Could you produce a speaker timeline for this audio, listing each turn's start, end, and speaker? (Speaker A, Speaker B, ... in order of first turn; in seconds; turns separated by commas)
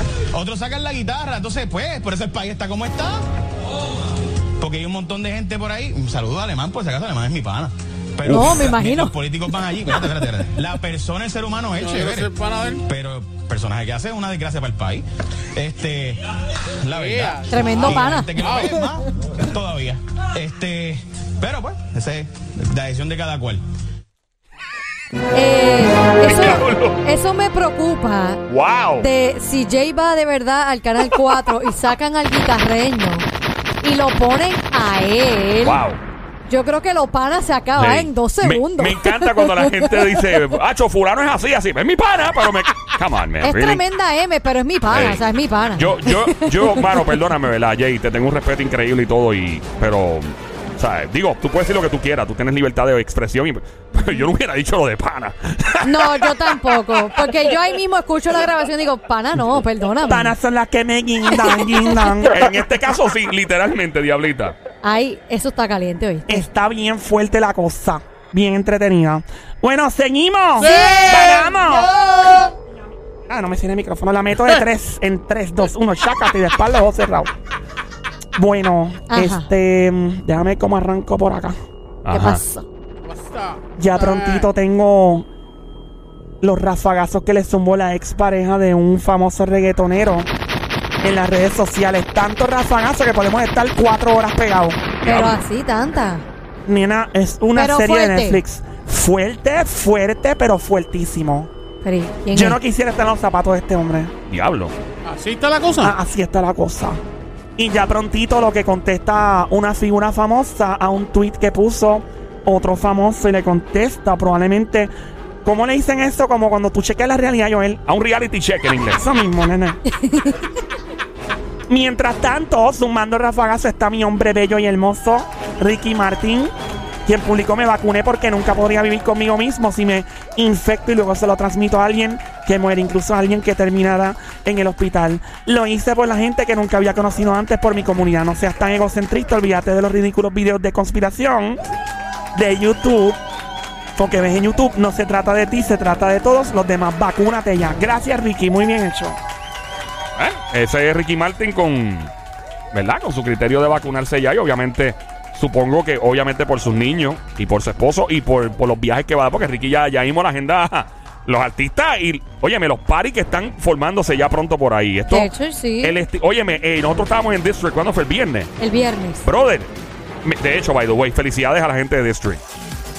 Speaker A: 0.3-3.2, Speaker A: 4.6-12.3, Speaker B: 8.2-9.1, Speaker C: 11.8-12.8, Speaker A: 12.8-23.6, Speaker C: 16.9-18.8, Speaker B: 17.5-18.3, Speaker B: 25.3-28.4, Speaker D: 26.2-27.0, Speaker D: 28.5-29.1, Speaker B: 29.0-33.2, Speaker B: 33.8-35.8, Speaker D: 35.6-36.0, Speaker B: 36.5-40.2, Speaker D: 37.8-43.8, Speaker B: 43.4-47.2, Speaker D: 44.9-45.2, Speaker D: 45.8-57.2, Speaker B: 54.0-54.2, Speaker B: 55.8-60.3, Speaker E: 60.1-62.6, Speaker B: 61.3-62.0, Speaker D: 62.3-64.5, Speaker B: 64.8-66.4, Speaker E: 66.3-71.9, Speaker C: 70.6-72.5, Speaker E: 73.3-77.3, Speaker E: 78.3-81.5, Speaker B: 79.1-79.5, Speaker D: 82.0-82.4, Speaker B: 82.1-82.7, Speaker C: 83.0-84.5, Speaker E: 83.8-85.3, Speaker E: 86.4-90.3, Speaker E: 91.0-94.9, Speaker D: 95.0-95.4, Speaker B: 95.0-96.2, Speaker E: 96.7-101.5, Speaker B: 97.5-98.4, Speaker B: 101.8-102.6, Speaker E: 102.3-104.1, Speaker D: 104.3-104.7, Speaker C: 105.0-105.9, Speaker E: 105.8-107.0, Speaker E: 107.6-114.9, Speaker E: 115.4-117.8, Speaker D: 117.9-119.0, Speaker E: 119.0-119.8, Speaker B: 119.9-120.4, Speaker E: 121.7-126.5, Speaker E: 127.0-141.6, Speaker E: 142.3-143.2, Speaker E: 143.9-149.2, Speaker D: 150.2-152.1, Speaker D: 152.7-165.3, Speaker B: 165.1-166.0, Speaker D: 165.8-168.5, Speaker B: 168.6-169.2, Speaker D: 169.2-169.7, Speaker D: 170.2-172.4